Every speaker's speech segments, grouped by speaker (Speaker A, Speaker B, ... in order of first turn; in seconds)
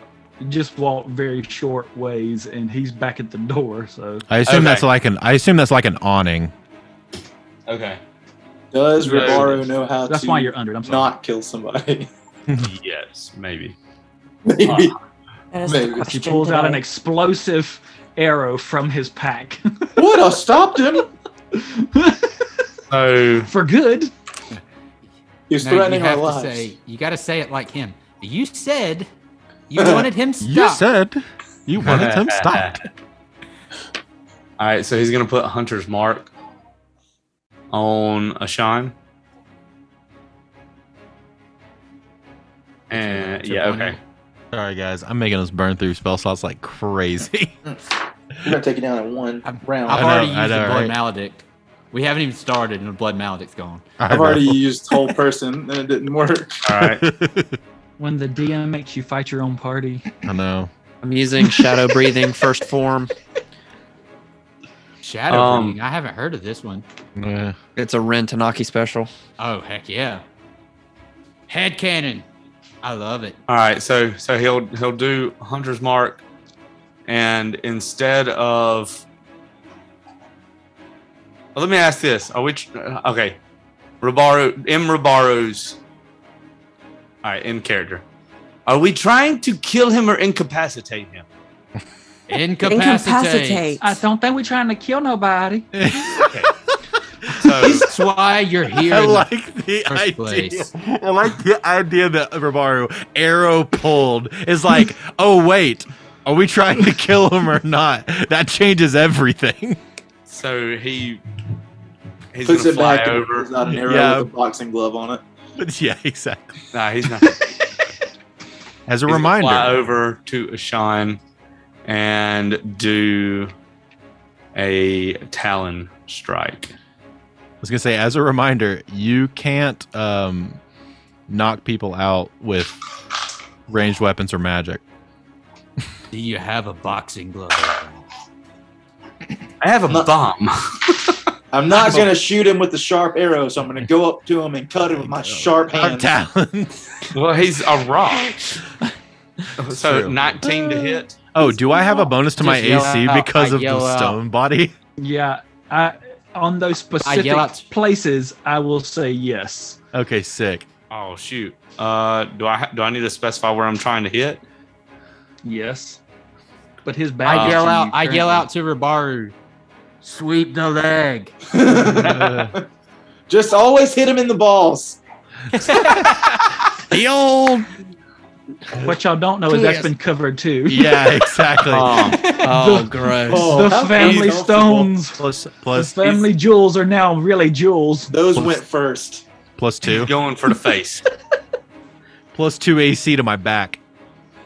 Speaker A: 0.4-4.3, 9.0-11.1, 16.0-20.0, 21.5-22.5, 23.4-24.1, 58.0-60.1, 93.8-95.7, 155.0-159.8, 165.4-166.0, 166.8-168.5, 178.8-181.1, 182.1-188.1
Speaker B: 4.3-6.5, 30.4-32.8, 44.5-47.6, 49.9-50.9, 54.0-54.6, 56.8-57.6, 60.2-60.7, 67.2-67.5, 95.7-96.5, 97.2-97.7, 98.7-109.8, 113.7-114.3, 115.6-116.7, 118.9-119.9, 127.6-130.6, 131.3-132.8, 133.7-134.8, 145.0-147.1, 149.7-150.5, 151.3-154.7, 159.9-160.7, 171.9-172.5, 180.7-182.0, 185.2-186.2, 189.6-190.1, 192.3-193.8
Speaker C: 4.5-4.9, 7.7-8.0, 9.0-9.6, 12.6-13.8, 14.6-14.9, 22.9-23.5, 31.8-32.8, 34.6-36.3, 37.7-38.9, 42.9-44.0, 56.6-57.0, 65.3-65.8, 73.5-76.2, 77.0-79.0, 81.5-83.4, 84.0-85.8, 87.2-88.0, 88.7-91.2, 96.2-96.5, 97.3-97.9, 110.3-111.2, 112.3-113.5, 116.7-117.5, 119.1-121.2, 121.8-123.5, 124.5-126.7, 139.6-141.2, 147.1-148.3, 149.6-151.2, 160.9-164.4, 167.3-167.7, 181.7-182.2, 189.9-191.0
Speaker D: 8.7-12.1, 14.4-14.9, 15.6-16.1, 20.0-21.1, 25.5-26.7, 29.8-30.1, 48.4-50.2, 54.1-56.7, 112.4-115.2, 141.5-146.1, 171.5-172.6, 173.3-175.0, 183.2-184.9, 188.1-189.2
Speaker E: 15.5-16.8, 92.6-94.0
Speaker F: 25.6-29.1, 29.7-30.8, 42.9-44.0, 49.4-53.8, 65.0-66.8, 69.4-70.2, 71.5-72.3, 72.8-73.4, 92.3-93.7, 97.6-99.3, 99.9-100.7, 136.1-138.0, 152.4-154.2, 157.0-157.7, 167.2-169.3, 170.0-171.3, 175.6-176.3
Speaker G: 61.0-63.1, 67.8-69.1, 176.9-177.7, 179.5-179.9, 182.1-183.7